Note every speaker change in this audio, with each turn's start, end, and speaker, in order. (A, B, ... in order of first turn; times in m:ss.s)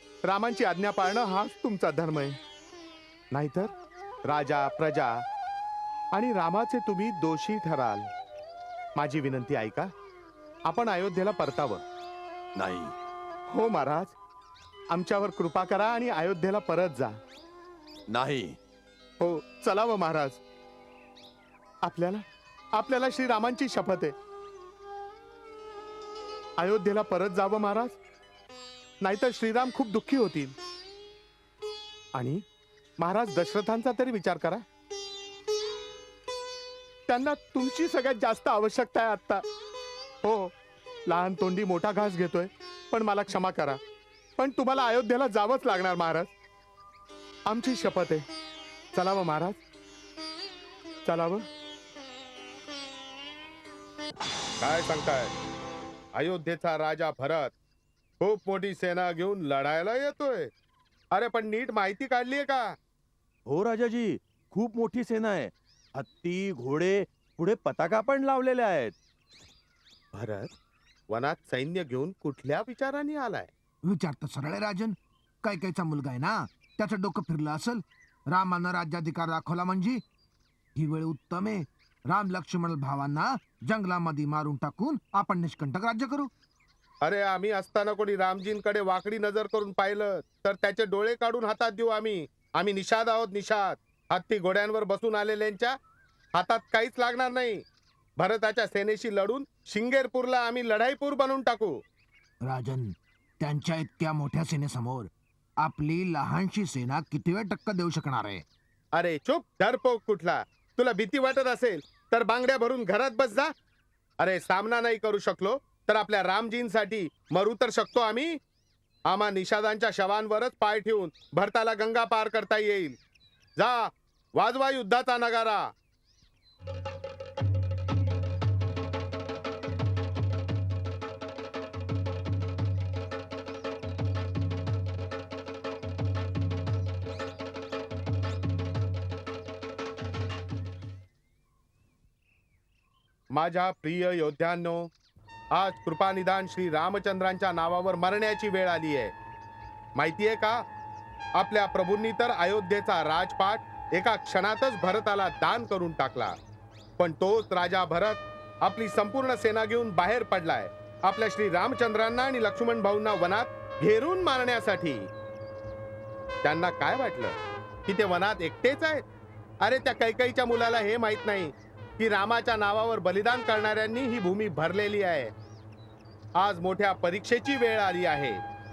0:00.2-0:02.4 A
0:03.3-0:03.7 A
0:04.2-0:05.2 A
0:06.1-0:08.1 A
0:09.0-0:09.9 A
0:10.6-0:11.8 A
0:12.6-0:12.9 B
0:13.5-0:14.2 A
0:14.9-0:17.2 A
0:18.1-0:18.6 B
0:19.2-0:20.4 A
0:21.8-0:24.2 A
0:26.6-0:28.0 A
0:29.0-0:30.5 A
0:32.1-0:32.4 A
0:33.0-0:34.6 A
0:37.1-0:39.4 A
0:40.2-0:40.5 A
0:41.1-0:43.8 A
0:44.4-0:46.3 A
0:47.5-0:48.2 A
0:48.9-0:49.6 A
0:51.0-0:51.4 A
0:54.6-0:55.3 A
0:56.1-0:57.5 A
0:58.2-1:00.5 A
1:01.1-1:02.8 A
1:03.4-1:09.0 B
1:10.1-1:10.5 A
1:11.1-1:13.5 A
1:13.8-1:20.0 C
1:20.8-1:26.3 C
1:27.0-1:35.7 A
1:36.3-1:37.6 A
1:38.2-1:41.8 A
1:42.4-1:48.4 C
1:48.9-1:53.5 A
1:54.2-1:58.4 A
1:59.1-2:03.0 A
2:03.6-2:05.7 A
2:23.3-2:24.9 A
2:25.5-2:29.1 A
2:30.0-2:30.6 A
2:31.4-2:36.4 A
2:37.0-2:45.1 A
2:46.4-2:49.0 A
2:49.6-2:55.3 A
2:56.4-2:58.4 A